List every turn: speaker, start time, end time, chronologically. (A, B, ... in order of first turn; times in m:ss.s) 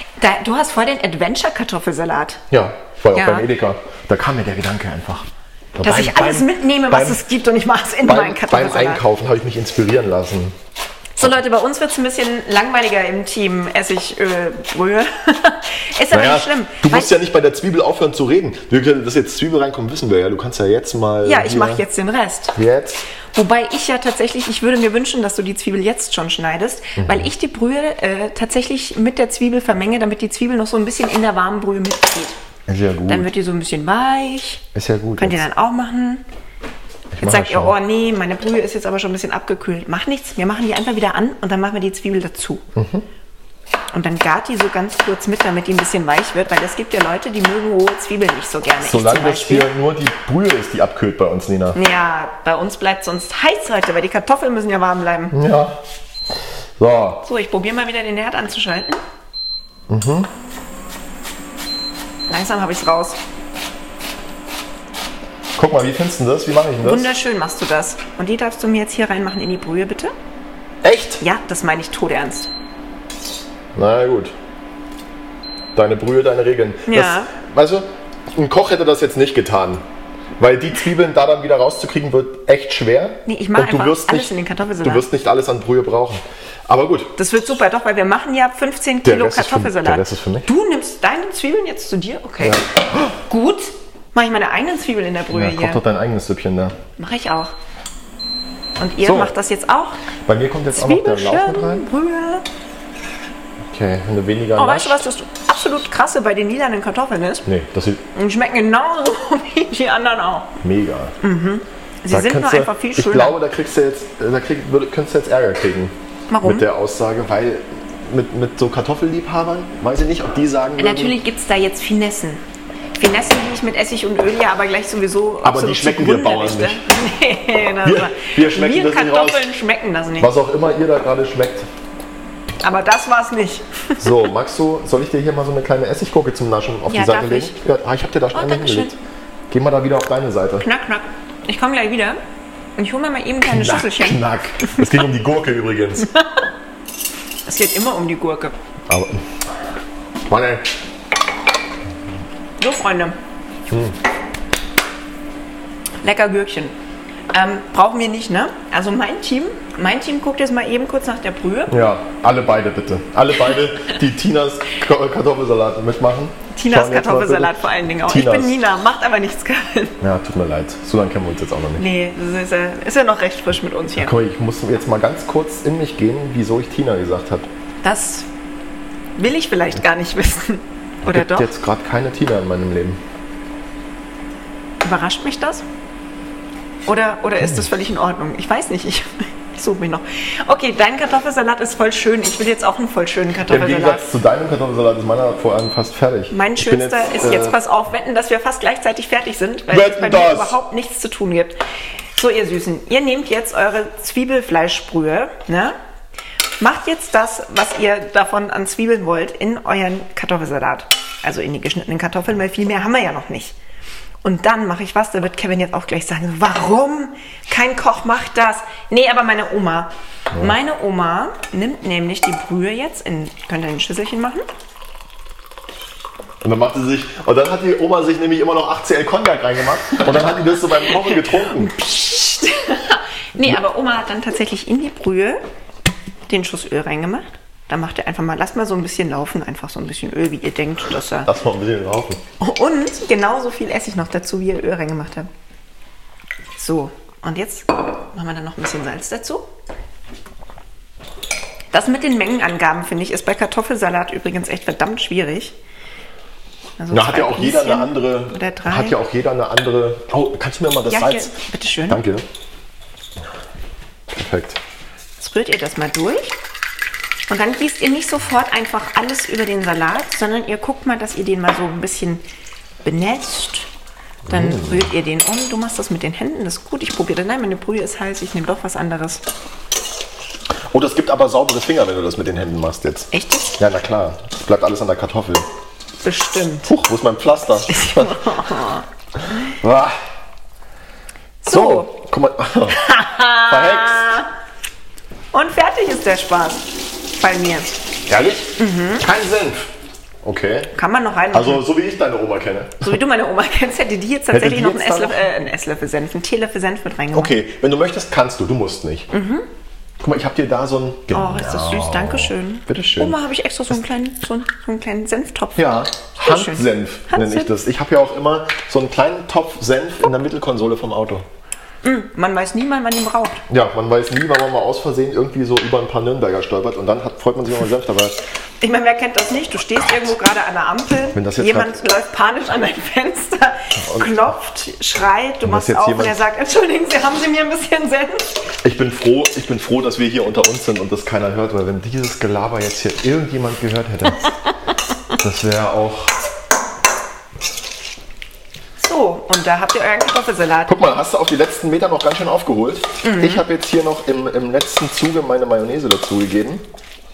0:00.2-0:02.4 A
0:02.5-0:07.2 B
0:03.1-0:03.5 A
0:05.8-0:09.0 A
0:08.0-0:10.5 B
0:11.2-0:17.1 A
0:16.1-0:21.8 B
0:21.2-0:22.6 A
0:22.5-0:23.0 B
0:23.3-0:32.4 A
0:27.0-0:27.3 B
0:32.7-0:33.3 B
0:33.1-0:36.2 A
0:34.7-0:35.4 B
0:37.1-0:37.8 B
0:37.2-0:42.6 A
0:42.7-0:43.1 B
0:43.9-0:49.7 A
0:48.8-0:51.8 B
0:51.7-0:55.4 A
0:55.3-0:55.8 B
0:56.8-0:57.2 B
0:57.2-0:59.0 A
0:59.9-1:00.3 B
1:02.3-1:03.2 A
1:05.6-1:07.1 B
1:06.8-1:10.1 A
1:10.8-1:11.2 B
1:11.2-1:12.5 A
1:13.7-1:14.3 B
1:15.7-1:19.8 B
1:16.9-1:17.3 A
1:20.4-1:27.1 B
1:23.2-1:25.1 A
1:27.2-1:32.6 A
1:29.0-1:30.5 B
1:32.4-1:33.2 B
1:33.2-1:35.8 A
1:35.3-1:36.8 B
1:37.0-1:37.5 A
1:38.8-1:40.0 A
1:39.0-1:39.3 B
1:40.2-1:41.8 B
1:40.7-1:42.4 A
1:43.7-1:45.0 B
1:44.6-1:47.4 A
1:47.4-1:48.0 B
1:48.1-1:50.6 A
1:50.6-1:51.1 B
1:51.2-1:53.4 A
1:52.1-2:01.2 B
1:56.3-1:56.7 A
2:00.8-2:02.4 A
2:03.0-2:10.3 A
2:05.4-2:06.8 B
2:07.8-2:09.4 B
2:10.2-2:11.7 B
2:12.6-2:14.1 A
2:14.0-2:18.9 B
2:16.9-2:17.6 A
2:18.3-2:18.9 A
2:19.5-2:20.6 B
2:20.6-2:22.2 A
2:22.8-2:24.8 A
2:23.4-2:26.1 B
2:27.4-2:28.6 A
2:28.9-2:29.2 B
2:30.3-2:30.7 B
2:32.6-2:33.2 A
2:33.7-2:34.0 B
2:36.0-2:36.7 A
2:37.3-2:41.7 A
2:41.7-2:48.6 B
2:46.5-2:50.0 A
2:50.0-2:51.8 B
2:51.8-2:54.1 A
2:54.0-2:57.5 B
2:57.8-2:58.3 A
2:59.2-3:01.5 A
3:01.0-3:03.0 B
3:04.8-3:05.6 A
3:06.9-3:14.1 A
3:13.5-3:17.6 B
3:16.3-3:21.6 A
3:19.7-3:20.6 B
3:22.2-3:25.8 A
3:26.6-3:33.5 A
3:34.2-3:44.4 A
3:46.4-3:51.7 B
3:50.9-3:55.4 A
3:56.3-4:01.3 A
4:01.2-4:02.2 B
4:02.4-4:05.3 A
4:06.6-4:09.5 A
4:11.7-4:15.6 A
4:16.8-4:19.0 A
4:16.9-4:21.3 B
4:20.9-4:22.0 A
4:21.9-4:22.2 B
4:24.1-4:24.6 B
4:25.2-4:26.4 A
4:27.3-4:32.2 A
4:32.8-4:33.7 A
4:34.2-4:34.9 B
4:34.3-4:39.2 A
4:40.7-4:45.4 B
4:43.1-4:43.6 A
4:46.0-4:46.7 A
4:46.7-4:48.5 B
4:47.7-4:48.8 A
4:49.3-4:50.0 B
4:51.4-4:51.9 A
4:51.5-4:52.9 B
4:52.7-4:54.3 A
4:53.4-4:54.2 B
4:55.3-4:57.8 A
4:58.1-4:59.7 B
4:58.6-4:59.0 A
5:00.2-5:00.7 B
5:00.7-5:01.7 A
5:01.3-5:03.0 B
5:02.8-5:07.4 A
5:04.3-5:05.3 B
5:07.1-5:09.1 B
5:09.1-5:09.4 A
5:10.0-5:13.2 B
5:11.1-5:17.5 A
5:15.6-5:21.3 B
5:21.8-5:23.4 A
5:23.5-5:28.2 B
5:28.6-5:38.4 A
5:29.8-5:30.1 B
5:31.1-5:31.8 B
5:33.8-5:34.3 B
5:35.4-5:36.2 B
5:38.6-5:44.3 B
5:45.2-5:46.2 B
5:48.8-5:50.9 A
5:50.7-5:56.6 B
5:53.0-5:53.4 A